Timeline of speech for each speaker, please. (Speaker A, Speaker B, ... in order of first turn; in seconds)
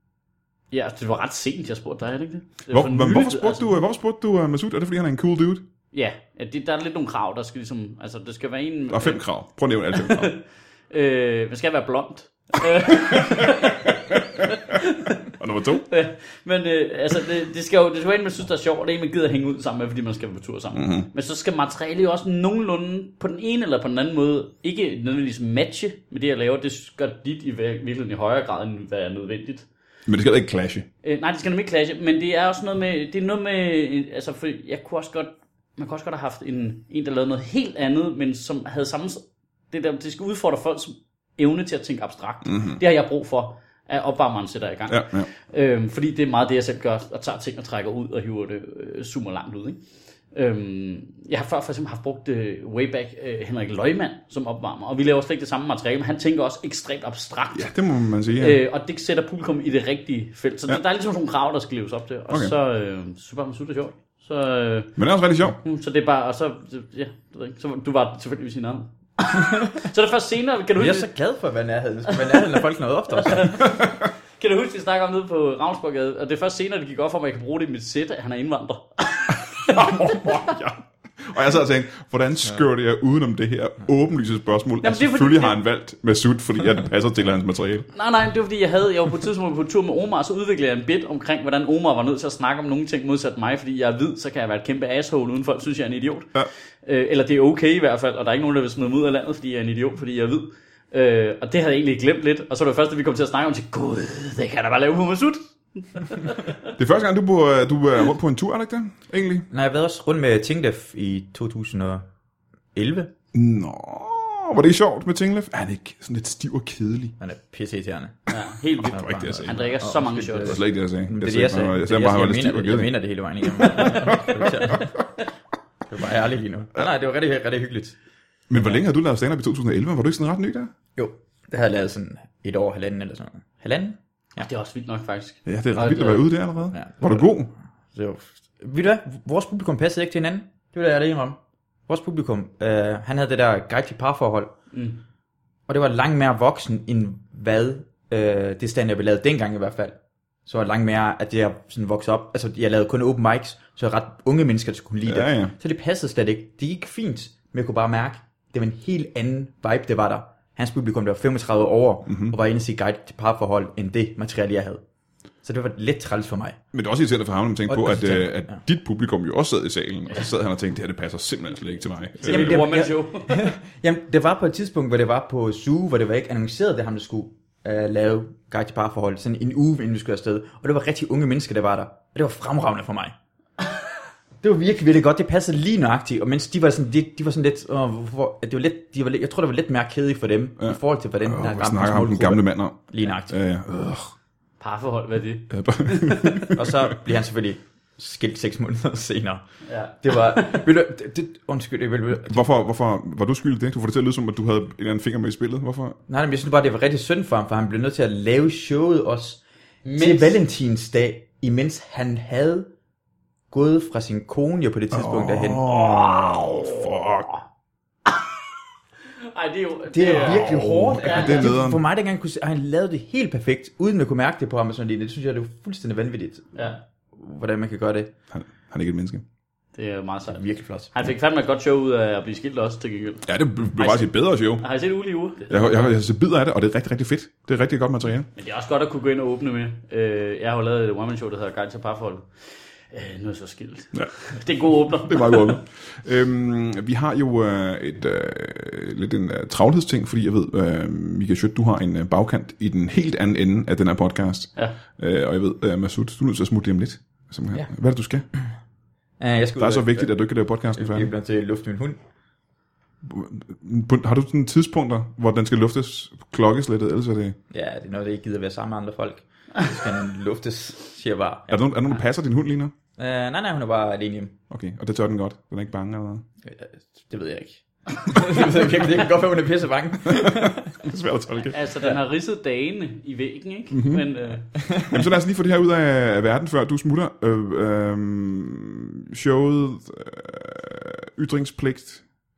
Speaker A: 0.7-3.8, 5.9-9.2, 9.9-15.3, 15.9-29.6, 31.0-49.8, 50.3-57.7, 58.4-65.0, 65.6-71.1, 72.1-72.6, 73.1-80.4, 84.8-85.6, 87.9-96.3, 96.8-106.6, 118.3-120.6, 134.4-136.3, 144.7-145.0, 172.2-173.5, 194.6-195.5, 199.7-200.6, 209.8-210.3, 215.7-216.9, 219.2-221.5, 229.8-235.9, 238.3-242.3, 242.9-245.6, 281.5-284.5
Speaker B: 2.7-5.6, 8.9-10.3, 12.9-15.9, 20.8-21.1, 30.1-30.9, 42.4-42.8, 44.9-45.3, 57.5-58.6, 65.0-65.6, 73.6-73.9, 79.6-87.9, 106.8-109.5, 113.3-117.1, 118.8-119.7, 120.4-123.0, 123.6-124.9, 128.5-130.7, 135.5-137.5, 155.1-155.5, 162.1-162.3, 166.7-172.6, 190.6-194.1, 195.5-196.9, 202.2-206.0, 214.9-217.3, 220.5-221.8, 228.3-229.2, 233.2-234.7, 235.5-238.3, 245.1-258.2, 259.6-261.1, 263.0-267.4, 271.5-272.7, 274.5-276.2, 280.1-281.6, 283.7-284.1, 284.8-292.0
Speaker C: 70.8-73.6, 109.5-112.0, 112.7-113.1, 117.2-118.3, 118.8-124.9, 125.9-128.0, 131.0-134.5, 136.7-137.3, 137.9-144.5, 145.7-164.8, 165.4-166.6, 167.7-168.6, 172.2-183.1, 184.4-193.3, 196.4-199.4, 200.0-202.4, 206.1-209.4, 209.9-212.7, 213.5-215.6, 219.9-228.1, 230.3-231.1, 259.2-260.1, 260.8-262.0, 267.5-271.7, 273.0-274.4, 276.4-280.8